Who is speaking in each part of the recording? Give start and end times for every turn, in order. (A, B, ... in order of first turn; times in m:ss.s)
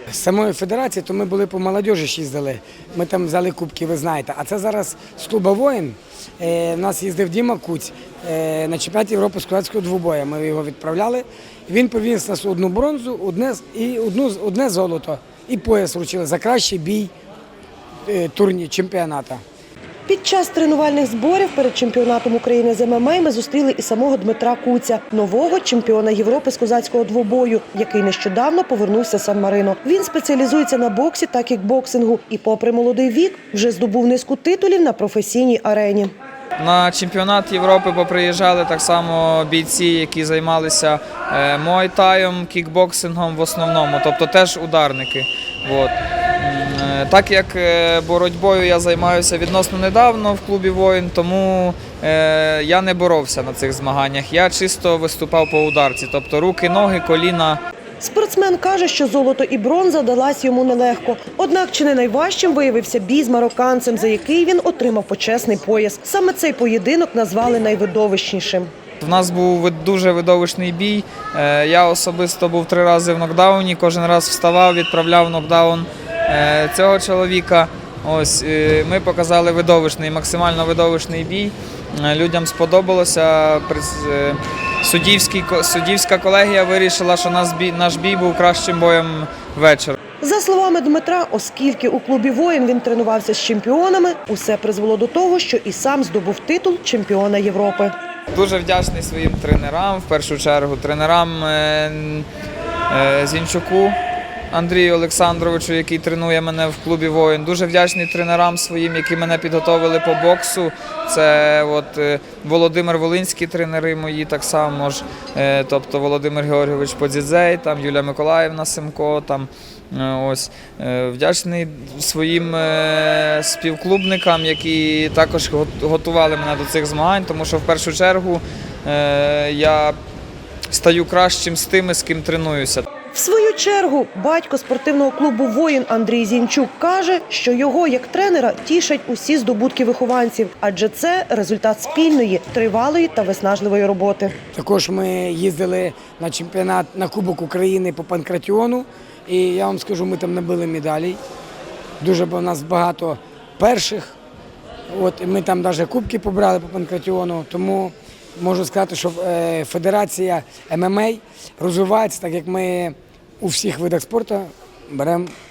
0:00.1-0:17.1 A
0:18.1-0:19.4 A
0:20.1-0:36.1 B
0:36.6-0:57.6 C
0:58.0-1:08.7 B
1:09.0-1:30.0 C
1:30.2-1:37.9 B
1:38.3-1:42.3 C
1:42.9-1:44.0 C
1:44.5-2:10.0 C
2:10.7-2:12.9 C
2:13.1-2:24.3 B
2:24.5-2:31.2 A
2:32.0-2:34.1 A
2:34.9-2:45.3 A